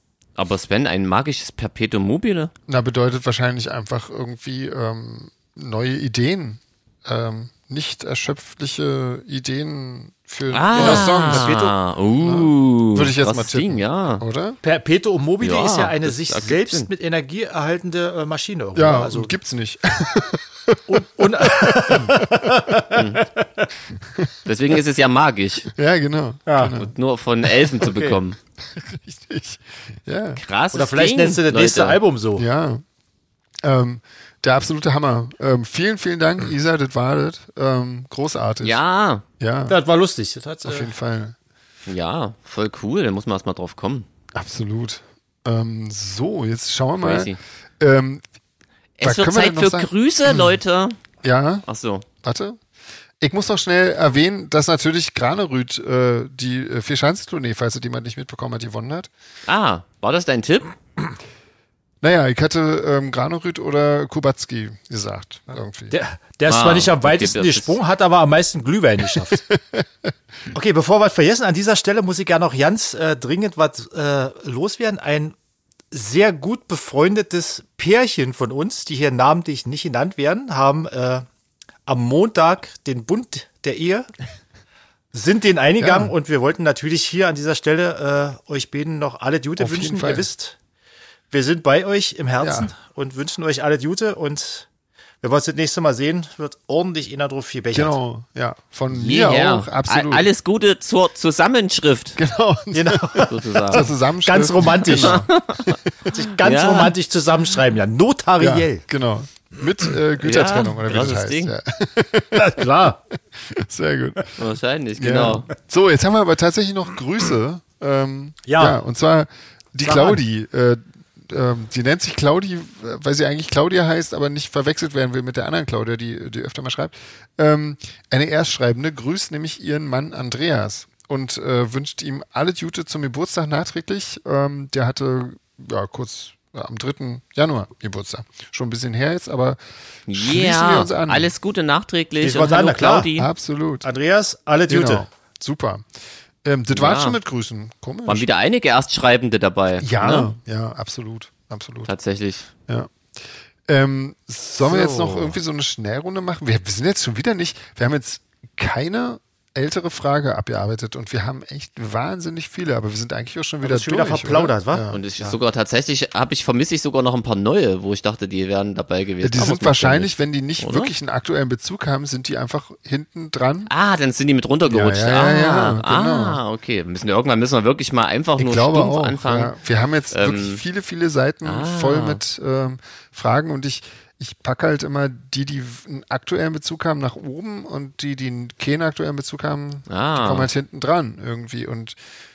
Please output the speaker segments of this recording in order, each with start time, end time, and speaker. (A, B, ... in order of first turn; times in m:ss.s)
0:00.4-0:02.5 A
0:02.7-0:11.6 B
0:10.5-0:14.2 A
0:10.7-0:11.7 C
0:12.2-0:14.6 B
0:14.6-0:19.3 C
0:15.4-0:16.9 A
0:18.7-0:22.6 B
0:20.9-0:23.7 C
0:22.9-0:23.2 A
0:24.4-0:25.7 A
0:25.7-0:26.9 B
0:26.5-0:26.8 C
0:26.7-0:28.4 A
0:27.8-0:28.2 C
0:28.7-0:30.4 B
0:30.4-0:32.0 A
0:30.7-0:32.4 C
0:32.4-0:32.8 B
0:33.6-0:38.8 B
0:38.6-0:39.2 A
0:39.4-0:39.8 B
0:39.7-0:40.9 C
0:40.6-0:41.4 B
0:41.9-0:44.1 A
0:44.3-0:48.2 B
0:47.0-0:47.4 A
0:49.0-0:51.0 A
0:49.0-0:50.6 B
0:51.2-0:51.6 B
0:51.6-0:52.0 A
0:52.2-0:52.6 B
0:53.2-0:59.1 B
0:59.5-1:00.7 A
1:02.0-1:05.9 B
1:05.9-1:09.4 C
1:06.5-1:07.8 A
1:09.6-1:10.1 B
1:10.5-1:15.3 C
1:15.9-1:21.2 C
1:21.9-1:24.1 C
1:25.1-1:30.6 C
1:25.8-1:26.1 B
1:29.6-1:30.3 B
1:31.3-1:34.7 C
1:32.4-1:32.7 B
1:35.2-1:38.0 C
1:37.7-1:40.3 B
1:38.9-1:42.2 A
1:42.2-1:45.7 B
1:42.7-1:45.3 C
1:43.3-1:43.9 A
1:44.9-1:46.9 A
1:46.1-1:48.8 C
1:48.4-1:52.6 B
1:50.2-1:51.5 A
1:52.3-1:53.0 C
1:53.3-1:54.4 B
1:54.4-1:55.5 A
1:55.0-2:21.3 B
1:58.4-1:58.8 C
1:59.8-2:00.2 C
2:20.1-2:23.3 A
2:22.2-2:23.1 C
2:23.2-2:23.9 B
2:23.8-2:25.1 C
2:24.7-2:25.9 B
2:26.4-2:28.3 B
2:26.7-2:27.2 A
2:28.1-2:30.3 A
2:29.8-2:31.9 B
2:31.8-2:32.5 A
2:32.7-2:32.9 B
2:33.7-2:45.0 B
2:34.6-2:35.3 C
2:43.6-2:45.4 C
2:44.9-2:50.9 A
2:49.2-2:53.7 B
2:53.7-2:59.5 A
2:54.7-2:56.4 B
2:58.4-3:12.0 B
3:00.1-3:00.6 A
3:01.4-3:02.2 A
3:09.9-3:10.5 A